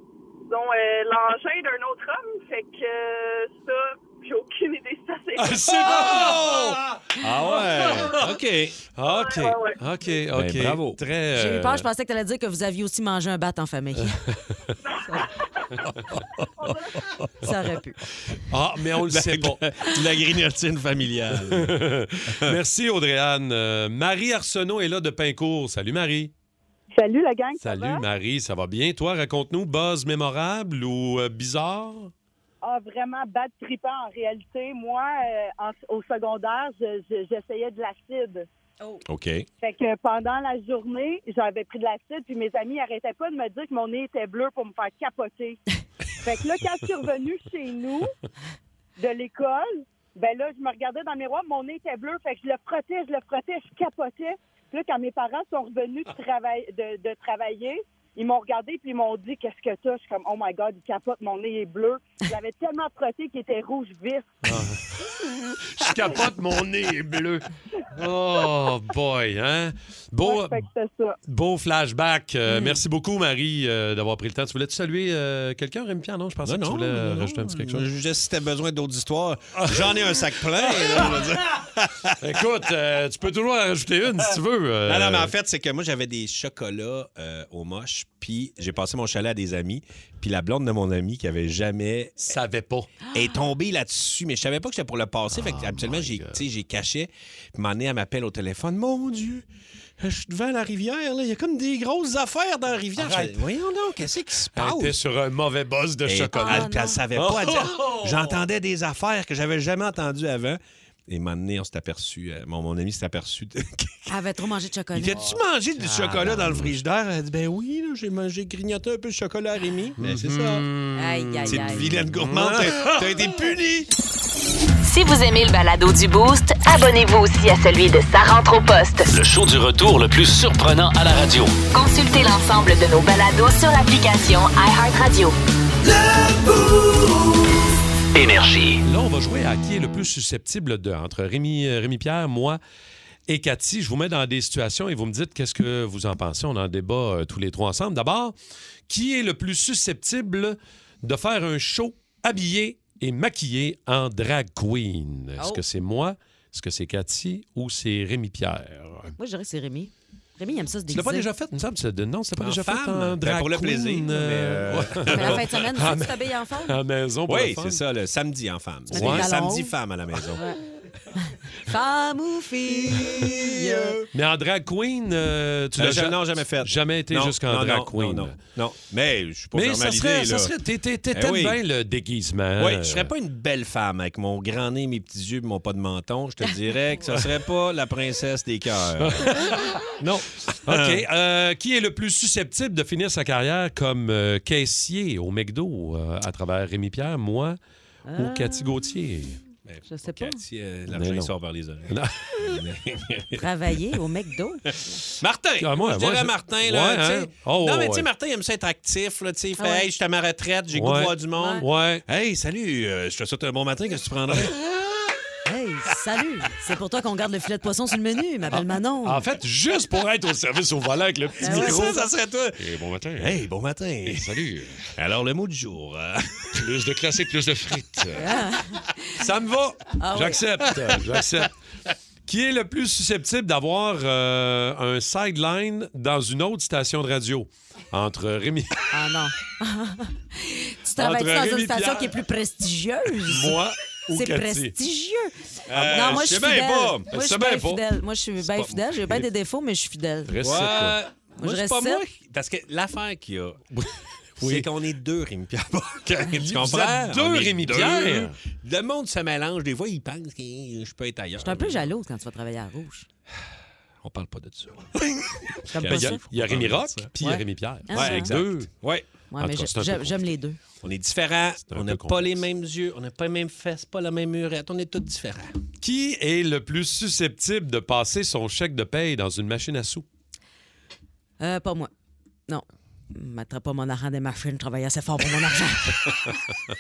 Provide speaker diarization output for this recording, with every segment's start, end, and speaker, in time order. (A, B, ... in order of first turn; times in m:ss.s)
0:00.5-0:06.2 A
0:05.4-0:08.3 B
0:05.8-0:08.8 C
0:08.9-0:11.9 B
0:09.1-0:09.8 A
0:10.3-0:11.0 C
0:11.3-0:14.2 D
0:15.9-0:16.4 C
0:16.6-0:17.0 A
0:17.4-0:18.0 D
0:18.4-0:19.6 B
0:19.0-0:22.6 C
0:21.4-0:26.3 B
0:27.0-0:28.0 E
0:27.6-0:32.1 B
0:32.6-0:38.5 E
0:39.1-0:39.5 C
0:39.6-0:45.6 E
0:46.2-0:48.1 E
0:49.0-1:04.4 E
1:04.4-1:10.7 B
1:10.2-1:11.2 E
1:11.3-1:17.9 B
1:12.5-1:12.8 D
1:16.4-1:22.2 C
1:19.6-1:21.2 B
1:22.2-1:25.3 B
1:24.9-1:32.4 C
1:32.2-1:32.9 B
1:33.0-1:33.4 D
1:33.1-1:39.5 C
1:35.3-1:36.4 B
1:40.0-1:45.0 C
1:43.0-1:43.4 B
1:44.6-1:48.4 B
1:46.1-1:54.1 C
1:46.3-1:47.0 D
1:54.1-1:56.5 D
1:55.0-2:00.7 C
2:00.0-2:03.4 B
2:01.0-2:02.0 D
2:01.4-2:03.9 C
2:04.8-2:09.1 F
2:09.1-2:11.6 G
2:11.7-2:15.4 F
2:18.1-2:18.8 G
2:18.8-2:22.6 B
2:23.3-2:28.4 B
2:28.9-2:39.2 B
2:39.2-2:41.3 D
2:40.9-2:47.8 B
2:42.4-2:45.5 C
2:45.1-2:46.8 D
2:47.3-2:50.4 C
2:48.9-2:49.3 B
2:48.9-2:49.8 D
2:51.3-2:54.0 D
2:52.6-2:54.1 C
2:54.1-2:58.4 B
2:55.8-3:00.5 C
2:59.5-3:03.1 B
3:01.1-3:01.6 C
3:02.6-3:09.4 C
3:09.0-3:17.6 B
3:10.0-3:11.0 C
3:18.1-3:18.8 D
3:18.2-3:19.4 B
3:19.7-3:23.4 C
3:19.9-3:20.4 D
3:20.9-3:21.3 B
3:21.9-3:22.2 B
3:23.3-3:25.0 D
3:25.2-3:34.8 C
3:25.6-3:28.1 B
3:29.6-3:29.9 D
3:30.7-3:32.0 B
3:31.4-3:31.6 D
3:35.4-3:39.2 D
3:38.5-3:42.0 B
3:41.4-3:42.6 C
3:41.4-3:42.1 D
3:42.6-3:43.4 B
3:43.2-3:44.4 C
3:44.0-3:44.9 B
3:45.0-3:46.6 C
3:46.6-3:48.3 B
3:48.2-3:49.2 D
3:49.2-3:51.5 B
3:50.0-3:50.4 D
3:50.6-3:51.2 C
3:52.3-3:58.8 B
3:58.9-4:03.6 D
4:01.0-4:02.2 B
4:03.3-4:04.7 B
4:04.1-4:10.3 D
4:05.7-4:07.1 C
4:05.7-4:06.4 B
4:07.1-4:07.8 B
4:08.4-4:09.2 B
4:10.3-4:11.0 B
4:10.4-4:13.8 C
4:11.4-4:12.0 D
4:13.7-4:14.7 B
4:14.4-4:21.9 C
4:16.3-4:18.4 B
4:21.4-4:23.1 D
4:24.0-4:27.1 C
4:25.7-4:26.2 D
4:25.9-4:28.7 B
4:27.2-4:28.4 D
4:27.9-4:29.1 C
4:29.3-4:30.6 D
4:29.4-4:30.3 B
4:30.8-4:35.5 C
4:31.7-4:32.4 B
4:35.8-4:40.0 B
4:41.4-4:41.9 D
4:42.5-4:46.4 D